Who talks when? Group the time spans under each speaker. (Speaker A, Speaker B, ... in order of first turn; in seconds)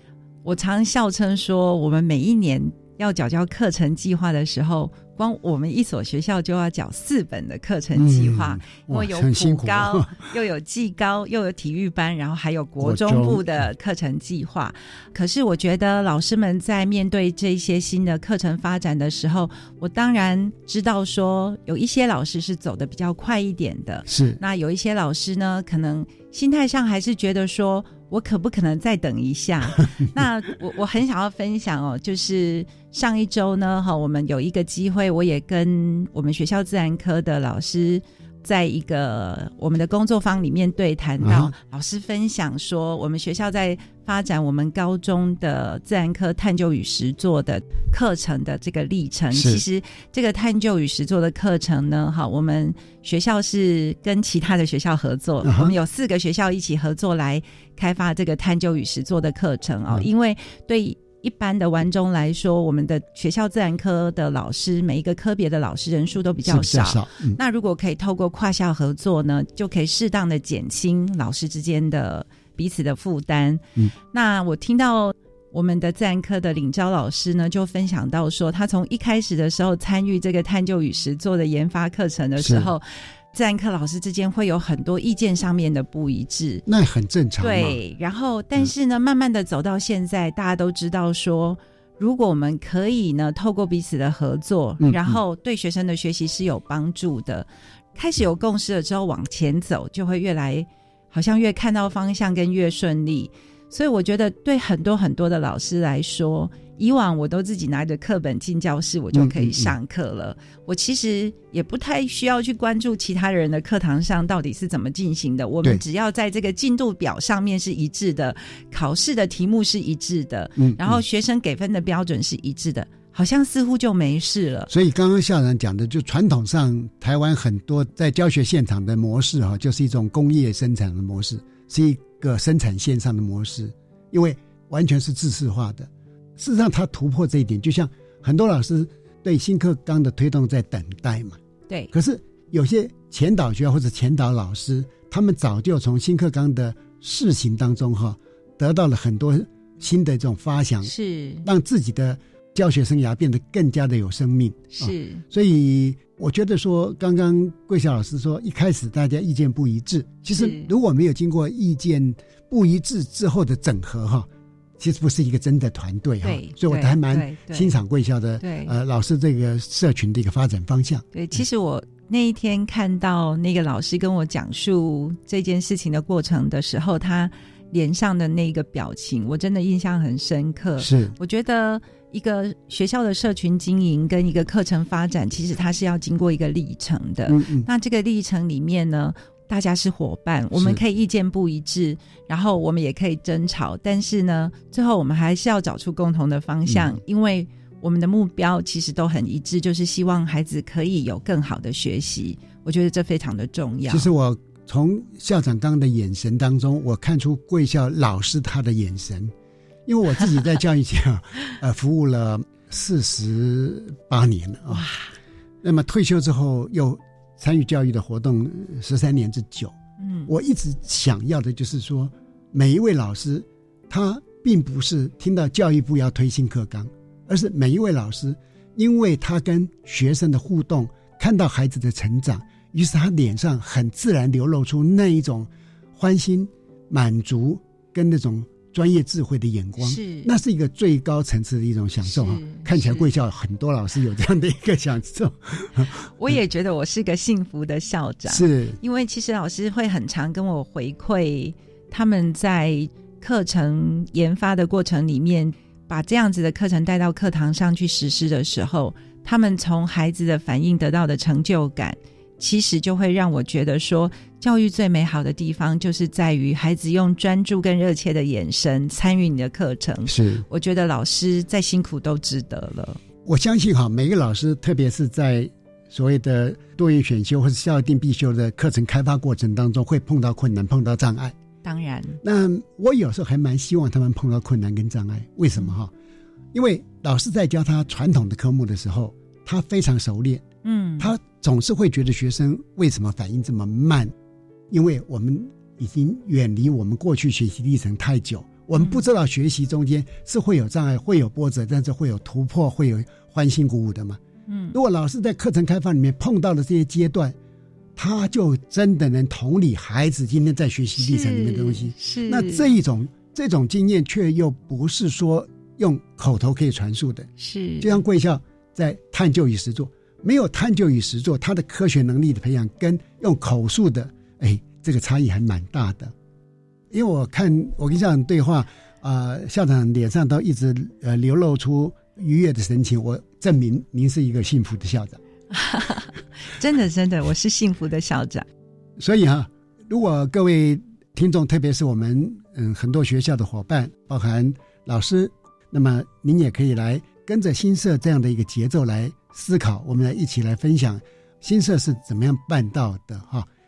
Speaker A: 0.4-86.6, 87.4-124.7, 150.8-151.4, 154.7-155.2, 160.3-160.7, 166.2-167.7, 168.4-168.7, 171.1-204.1, 214.7-215.1, 220.0-220.3, 239.8-240.3, 242.1-243.1, 246.2-273.0, 281.6-282.2, 290.6-291.1, 298.8-299.0, 304.5-304.8, 311.0-312.7, 317.4-317.9, 335.5-338.4
Speaker B: 7.9-10.2, 12.8-13.4, 24.1-24.4, 41.2-41.5, 49.3-49.6, 55.4-55.8, 66.4-67.4, 82.4-82.7, 86.7-87.8, 94.8-95.2, 109.1-109.7, 120.5-121.0, 124.7-141.4, 141.9-164.3, 164.8-171.4, 180.8-181.1, 187.3-187.7, 190.5-190.8, 196.7-197.0, 203.9-209.3, 209.8-214.9, 215.6-219.8, 220.3-246.3, 248.3-248.8, 270.1-270.4, 273.2-281.3, 282.2-285.9, 286.5-290.4, 291.0-294.1, 294.7-304.2, 304.7-307.4, 307.9-326.1, 326.9-335.2, 339.0-353.5